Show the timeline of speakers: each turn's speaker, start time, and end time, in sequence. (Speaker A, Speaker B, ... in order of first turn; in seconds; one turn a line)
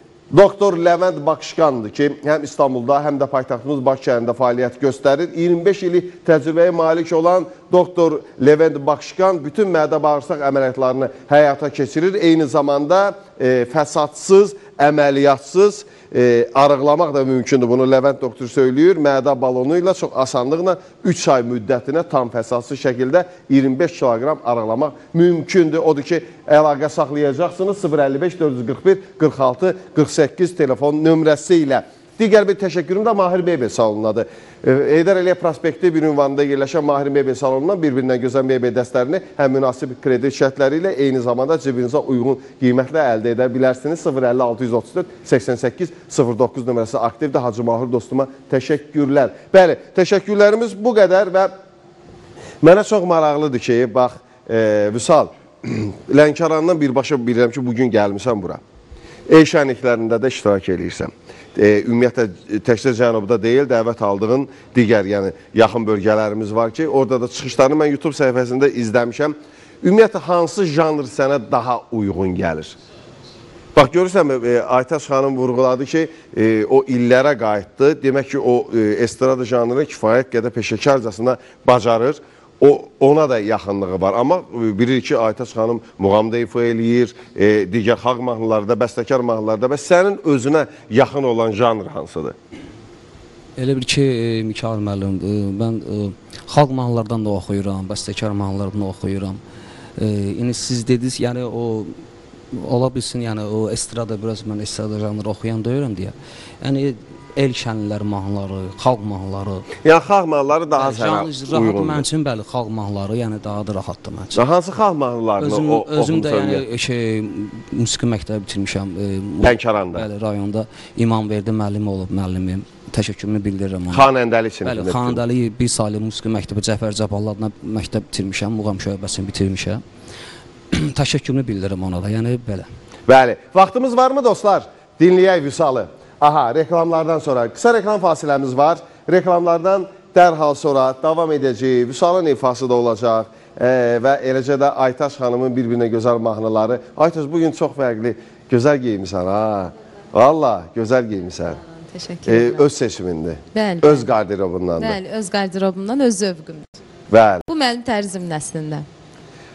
Speaker A: 0.3-51.5
Speaker A: 52.6-58.6
Speaker A: 59.3-72.8
Speaker A: 73.7-92.3
Speaker B: 93.6-99.4
Speaker B: 100.0-102.0
Speaker B: 102.5-109.7
Speaker A: 109.8-112.0
Speaker B: 110.7-114.4
Speaker A: 114.3-116.6
Speaker B: 115.4-124.1
Speaker A: 119.4-120.1
Speaker A: 123.9-125.2
Speaker B: 124.6-129.8
Speaker B: 130.7-132.7
Speaker A: 133.1-151.6
Speaker C: 151.8-152.6
Speaker A: 152.2-155.0
Speaker C: 153.5-154.1
Speaker C: 154.8-156.7
Speaker A: 157.1-157.4
Speaker C: 157.5-158.8